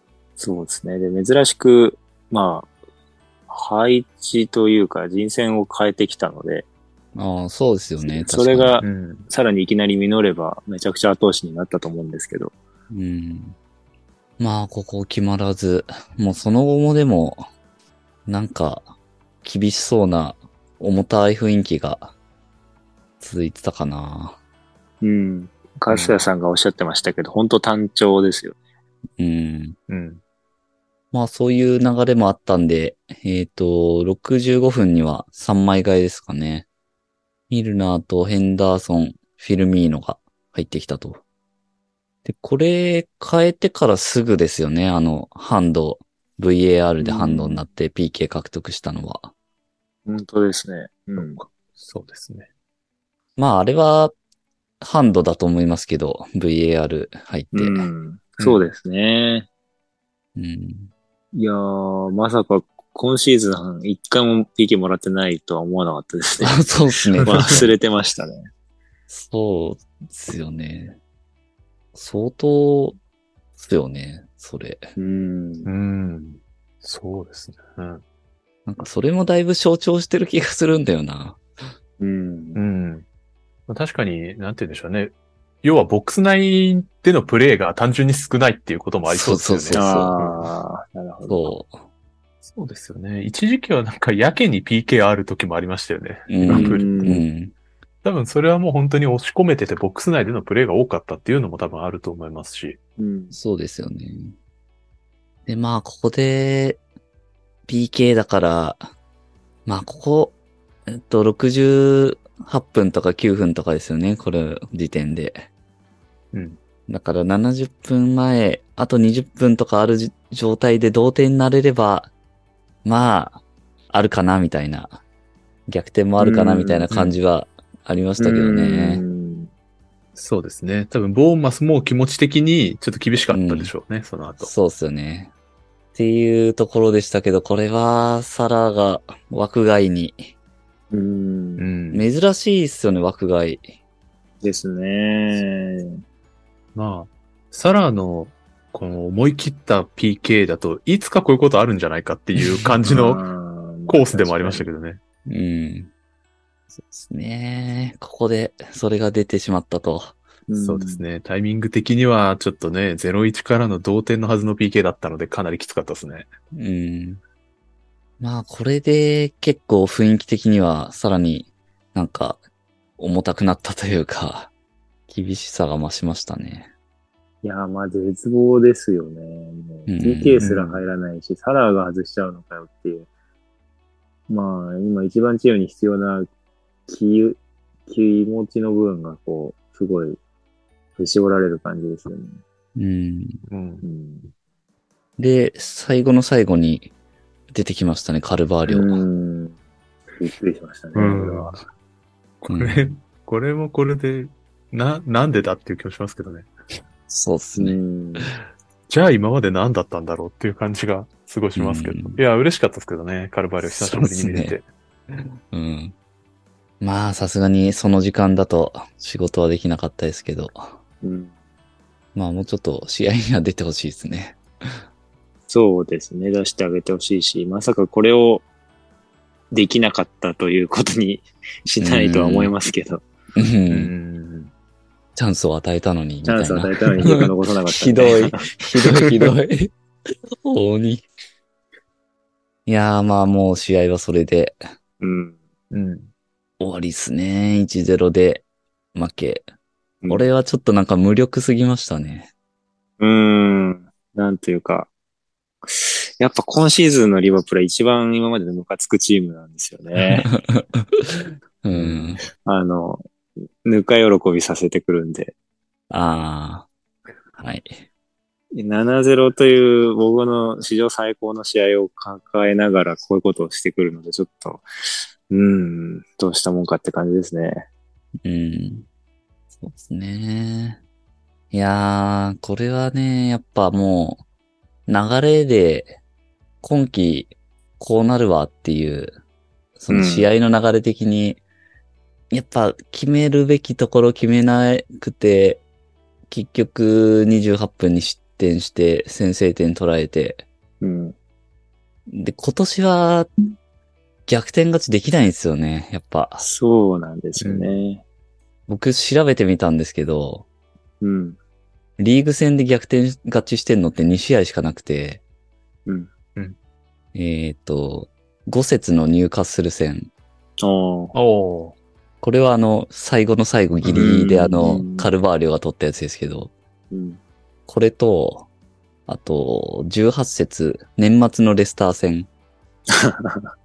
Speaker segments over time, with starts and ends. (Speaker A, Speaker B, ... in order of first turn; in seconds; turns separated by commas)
Speaker A: 0.4-2.7, Speaker A: 3.5-6.7, Speaker B: 7.2-8.8, Speaker A: 8.0-12.5, Speaker C: 8.8-9.3, Speaker B: 12.9-13.6, Speaker B: 14.4-17.5, Speaker B: 18.3-18.9, Speaker B: 19.4-22.1, Speaker B: 23.2-24.4, Speaker A: 25.0-28.6, Speaker C: 25.9-26.2, Speaker B: 29.2-29.8, Speaker C: 29.9-30.2, Speaker B: 31.1-36.7, Speaker B: 37.5-41.2, Speaker B: 42.2-49.3, Speaker A: 47.0-47.6, Speaker A: 50.1-51.4, Speaker C: 51.2-52.5, Speaker B: 53.4-54.1, Speaker B: 54.8-57.9, Speaker A: 57.5-59.5, Speaker C: 58.4-58.6, Speaker B: 60.4-60.9, Speaker A: 61.3-66.7, Speaker B: 66.4-67.7, Speaker A: 67.2-68.5, Speaker C: 67.3-67.7, Speaker B: 69.1-71.0, Speaker B: 71.9-73.0, Speaker B: 73.6-74.9, Speaker A: 75.0-75.7, Speaker C: 75.7-78.0, Speaker B: 78.7-81.4, Speaker A: 82.0-82.6, Speaker C: 82.5-83.0, Speaker C: 83.7-90.4, Speaker B: 89.1-90.2, Speaker A: 89.7-91.5, Speaker B: 91.3-91.8, Speaker C: 92.4-97.2, Speaker B: 96.3-97.5, Speaker A: 96.5-97.2, Speaker C: 98.0-102.8, Speaker A: 103.0-103.3, Speaker B: 103.3-104.3, Speaker B: 105.5-106.8, Speaker B: 107.7-108.9, Speaker B: 109.7-110.4, Speaker B: 110.9-115.5, Speaker C: 116.3-116.6, Speaker B: 116.9-122.1, Speaker B: 122.8-125.0, Speaker B: 125.7-129.0, Speaker A: 126.2-126.9, Speaker C: 126.9-127.2, Speaker A: 128.2-129.5, Speaker C: 130.2-134.5, Speaker B: 133.3-133.7, Speaker B: 134.4-135.3, Speaker B: 135.9-140.3, Speaker A: 140.9-141.7, Speaker C: 141.6-142.1, Speaker B: 141.9-143.8, Speaker A: 144.4-146.0, Speaker C: 146.8-153.3, Speaker A: 152.8-154.7, Speaker C: 153.9-155.0, Speaker B: 155.3-155.9, Speaker B: 156.8-160.2, Speaker A: 160.5-161.0, Speaker C: 160.6-166.3, Speaker B: 166.5-167.2, Speaker B: 168.2-172.4, Speaker B: 173.0-174.5, Speaker B: 175.1-176.7, Speaker A: 177.4-183.1, Speaker B: 179.9-180.5, Speaker C: 180.4-180.8, Speaker A: 184.3-186.3, Speaker A: 186.9-190.2, Speaker A: 191.0-192.4, Speaker B: 192.8-193.4, Speaker C: 193.5-193.8, Speaker A: 193.8-194.3, Speaker B: 195.2-196.9, Speaker B: 197.5-199.0, Speaker A: 198.7-199.6, Speaker A: 200.2-201.6, Speaker C: 200.9-201.6, Speaker C: 202.4-206.5, Speaker B: 202.5-202.9, Speaker B: 207.1-207.8, Speaker A: 207.6-208.3, Speaker C: 208.9-214.7, Speaker B: 211.6-212.2, Speaker B: 213.6-214.6, Speaker B: 215.5-215.9, Speaker B: 216.8-220.8, Speaker A: 221.0-221.3, Speaker B: 222.2-224.8, Speaker A: 225.5-228.4, Speaker A: 229.5-233.0, Speaker B: 231.8-232.5, Speaker B: 233.4-233.9, Speaker C: 233.7-234.5, Speaker B: 235.2-239.7, Speaker A: 236.2-238.6, Speaker B: 240.4-241.1, Speaker B: 242.7-244.6, Speaker A: 245.0-245.4, Speaker C: 245.7-246.1, Speaker B: 246.6-249.4, Speaker B: 250.1-252.3, Speaker A: 253.0-254.9, Speaker A: 255.6-260.3, Speaker B: 260.1-262.2, Speaker A: 262.3-263.1, Speaker A: 263.6-265.3, Speaker B: 265.9-266.7, Speaker B: 267.4-267.8, Speaker A: 268.5-274.7, Speaker A: 275.3-277.7, Speaker B: 278.2-278.9, Speaker B: 279.6-280.8, Speaker B: 281.5-284.2, Speaker B: 284.9-286.0, Speaker B: 286.6-289.2, Speaker B: 289.8-291.4, Speaker A: 289.9-290.3, Speaker B: 292.3-295.6, Speaker B: 296.3-300.4, Speaker A: 300.8-301.1, Speaker B: 302.1-303.3, Speaker B: 304.3-306.4, Speaker A: 306.4-308.0, Speaker C: 307.4-307.8, Speaker B: 308.7-310.5, Speaker A: 311.0-311.4, Speaker B: 312.0-315.2, Speaker A: 315.9-316.1, Speaker B: 317.1-320.1, Speaker A: 320.6-321.1, Speaker C: 321.1-321.8, Speaker B: 322.2-326.5, Speaker A: 323.9-325.1, Speaker A: 326.9-327.2, Speaker B: 327.7-328.5, Speaker B: 329.1-332.3, Speaker A: 332.9-333.5